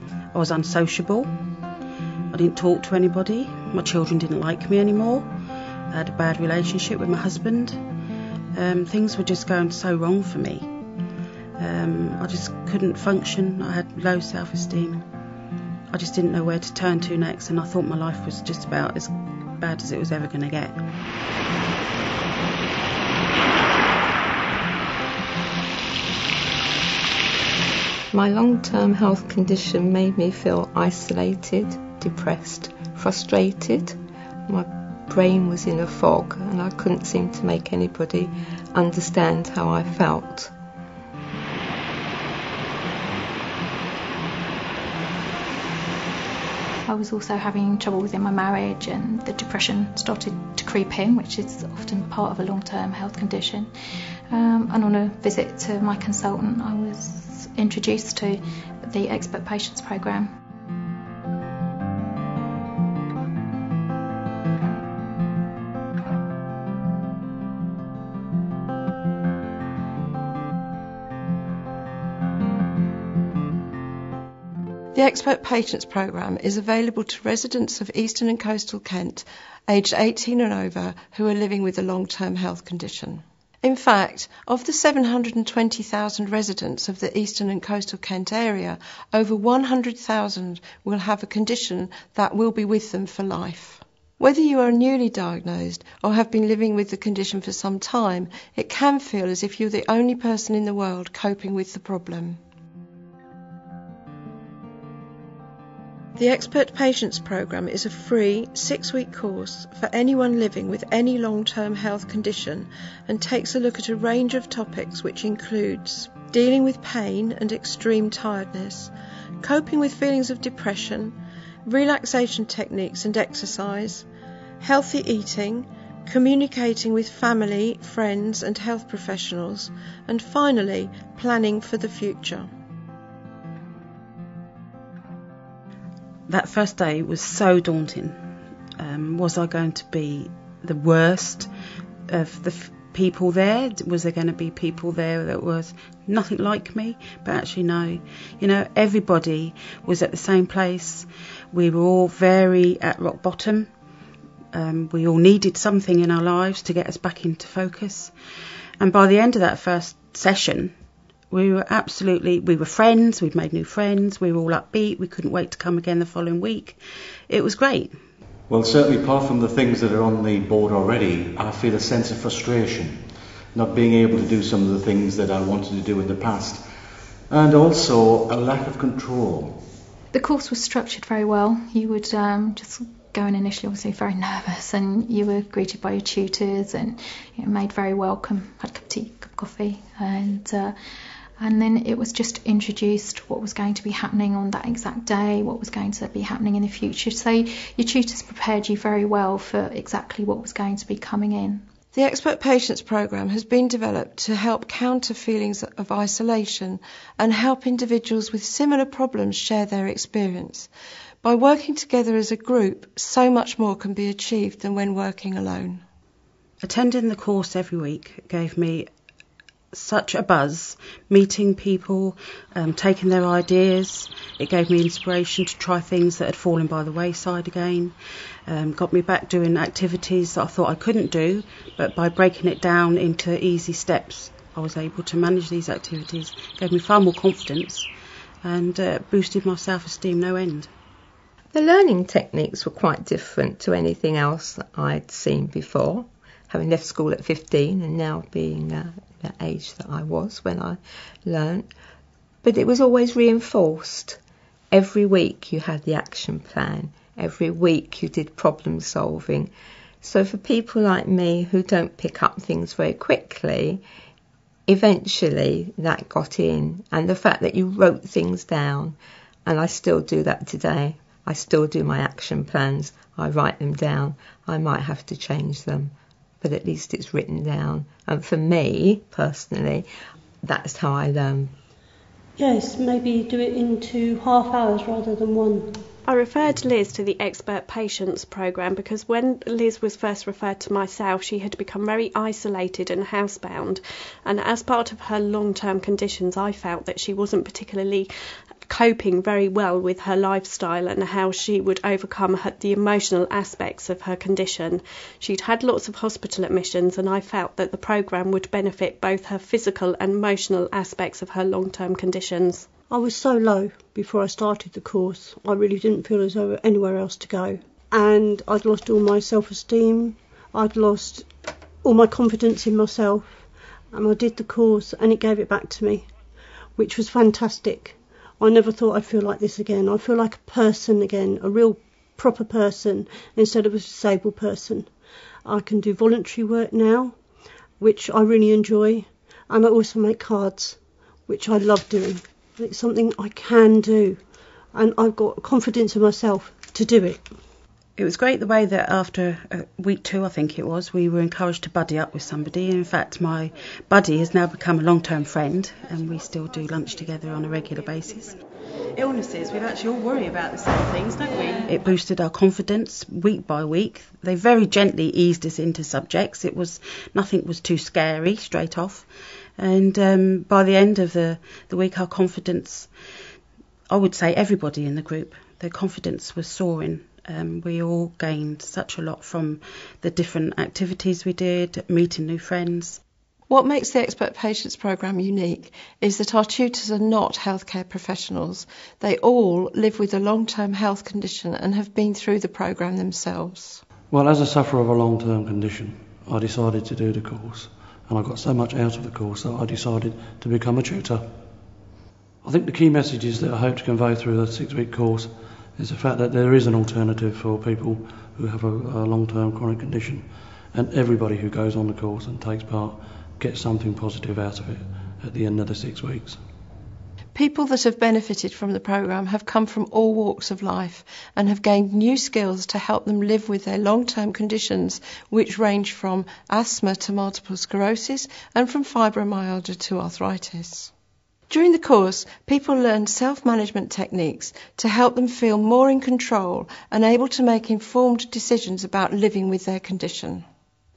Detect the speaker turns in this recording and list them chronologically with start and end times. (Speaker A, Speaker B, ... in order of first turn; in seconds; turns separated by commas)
Speaker A: 0.3-1.3, Speaker A: 2.3-5.3, Speaker A: 5.9-7.8, Speaker A: 8.6-10.7, Speaker A: 11.6-15.0, Speaker A: 15.9-20.8, Speaker B: 28.1-40.5, Speaker C: 46.9-53.7, Speaker C: 54.3-60.3, Speaker D: 74.9-102.4, Speaker D: 106.2-121.2, Speaker D: 121.7-124.0, Speaker D: 124.6-132.5, Speaker A: 136.3-138.2, Speaker A: 138.8-141.5, Speaker A: 142.1-153.7, Speaker A: 154.5-158.1, Speaker A: 158.8-160.7, Speaker A: 161.3-166.8, Speaker A: 167.3-168.0, Speaker E: 168.5-176.7, Speaker E: 177.3-179.7, Speaker C: 180.1-190.8, Speaker C: 191.4-201.6, Speaker D: 201.9-210.7, Speaker D: 211.2-215.8, Speaker A: 216.6-218.9, Speaker A: 219.7-227.9, Speaker A: 228.5-237.9, Speaker A: 238.4-240.7, Speaker B: 241.5-251.7, Speaker B: 252.4-254.2, Speaker B: 254.7-263.8, Speaker B: 264.7-279.9, Speaker B: 280.4-281.5, Speaker F: 282.4-285.8, Speaker G: 286.1-298.1, Speaker G: 298.7-312.7, Speaker F: 312.9-321.3, Speaker F: 321.8-326.1, Speaker F: 326.8-334.9, Speaker F: 335.4-337.2, Speaker F: 337.8-344.2, Speaker F: 344.7-347.3, Speaker A: 348.0-358.4, Speaker A: 359.0-372.9, Speaker A: 373.9-383.0, Speaker D: 383.5-393.8, Speaker H: 394.1-401.3, Speaker H: 402.4-416.4, Speaker D: 417.3-430.9, Speaker D: 431.5-440.4